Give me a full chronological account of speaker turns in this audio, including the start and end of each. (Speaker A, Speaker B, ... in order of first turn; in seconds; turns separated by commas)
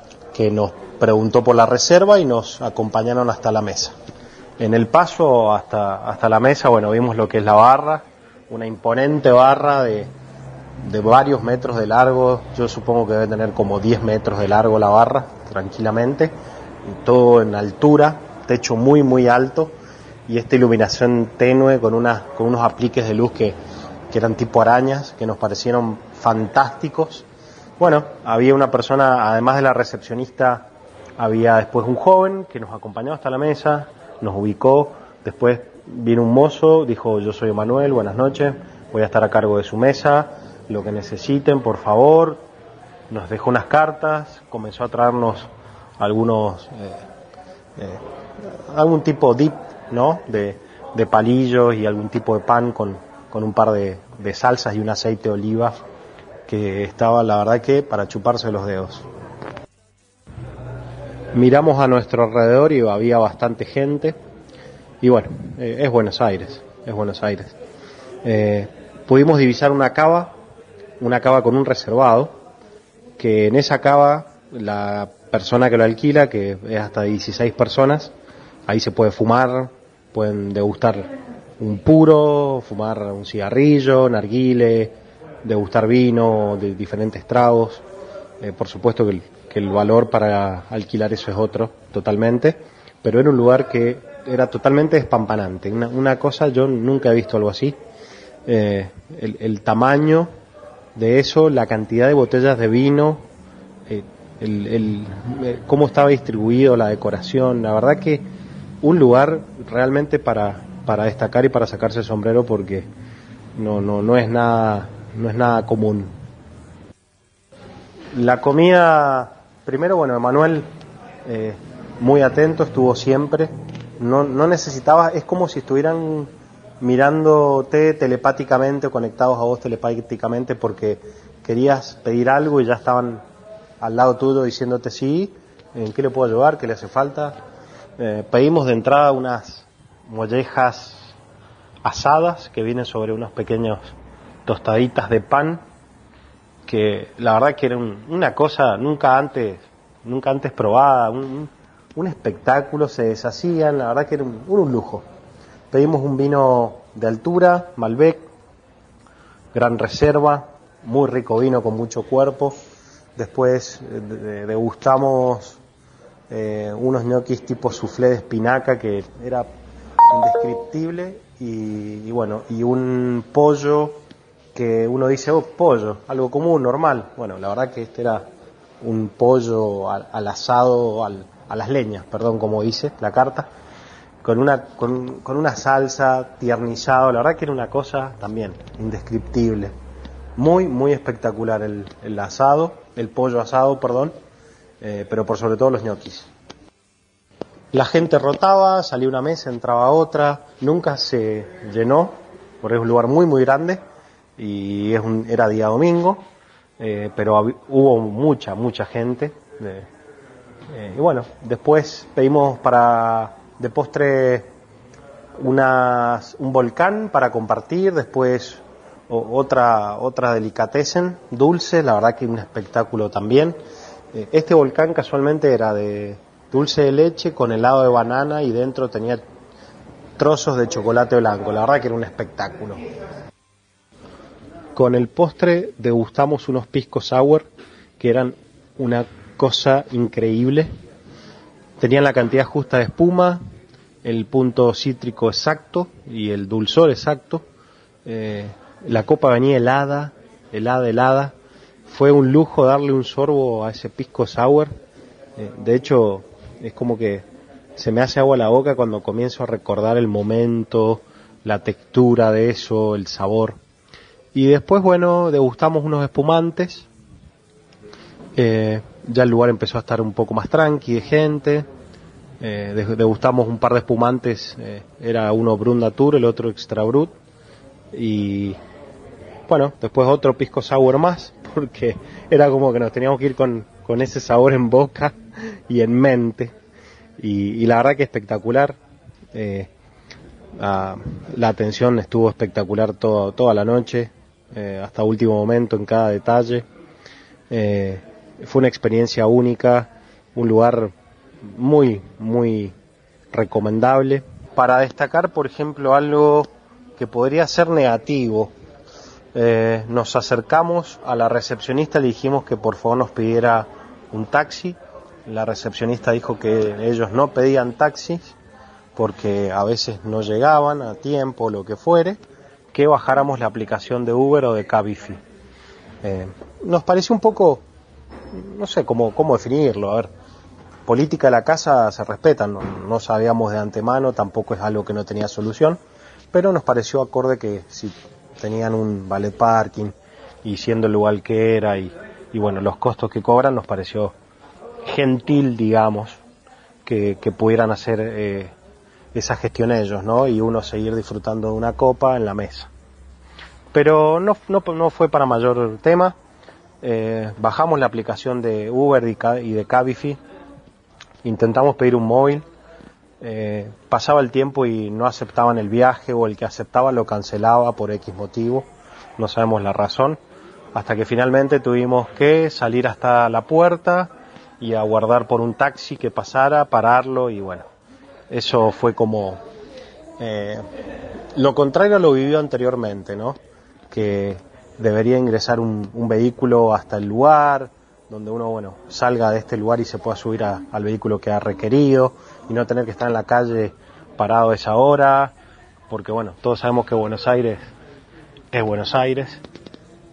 Speaker A: 0.3-3.9, Speaker A: 4.6-10.1, Speaker A: 10.8-23.6, Speaker A: 24.1-27.2, Speaker A: 27.8-42.4, Speaker A: 43.1-47.0, Speaker A: 47.8-55.7, Speaker A: 56.5-59.0, Speaker A: 61.3-64.2, Speaker A: 65.0-67.5, Speaker A: 68.2-70.4, Speaker A: 71.0-72.3, Speaker A: 73.2-78.1, Speaker A: 78.7-87.8, Speaker A: 88.4-97.8, Speaker A: 98.5-100.3, Speaker A: 100.9-103.2, Speaker A: 103.9-108.3, Speaker A: 108.8-112.9, Speaker A: 113.5-116.1, Speaker A: 118.1-120.7, Speaker A: 121.2-133.2, Speaker A: 133.8-137.4, Speaker A: 138.0-141.1, Speaker A: 141.8-143.9, Speaker A: 144.4-145.6, Speaker A: 146.7-155.0, Speaker A: 155.7-158.3, Speaker A: 159.5-162.6, Speaker A: 163.2-165.6, Speaker A: 166.3-169.5, Speaker A: 170.1-174.0, Speaker A: 174.5-178.3, Speaker A: 178.8-183.5, Speaker A: 184.2-189.7, Speaker A: 190.4-194.2, Speaker A: 194.8-196.3, Speaker A: 197.7-203.8, Speaker A: 204.4-206.3, Speaker A: 206.8-209.9, Speaker A: 210.7-214.5, Speaker A: 215.4-223.6, Speaker A: 224.1-229.2, Speaker A: 230.2-232.8, Speaker A: 234.7-240.7, Speaker A: 241.8-243.4, Speaker A: 244.0-247.4, Speaker A: 248.0-251.3, Speaker A: 251.9-254.7, Speaker A: 255.4-257.2, Speaker A: 257.8-263.6, Speaker A: 264.3-266.9, Speaker A: 268.4-271.7, Speaker A: 272.4-277.1, Speaker A: 277.9-278.6, Speaker A: 279.5-285.2, Speaker A: 285.7-286.5, Speaker A: 287.2-288.8, Speaker A: 289.3-289.7, Speaker A: 290.6-296.6, Speaker A: 297.5-300.9, Speaker A: 301.5-302.7, Speaker A: 303.3-308.5, Speaker A: 309.3-318.3, Speaker A: 318.9-322.2, Speaker A: 322.7-325.2, Speaker A: 326.0-327.6, Speaker A: 328.3-330.1, Speaker A: 330.9-335.8, Speaker A: 336.3-344.1, Speaker A: 344.8-346.2, Speaker A: 346.8-348.5, Speaker A: 349.1-352.7, Speaker A: 353.7-356.1, Speaker A: 356.8-360.2, Speaker A: 361.2-362.4, Speaker A: 363.2-370.2, Speaker A: 370.7-377.7, Speaker A: 378.3-379.4, Speaker A: 380.2-380.6, Speaker A: 381.3-383.4, Speaker A: 383.9-395.3, Speaker A: 395.9-397.6, Speaker A: 398.5-399.4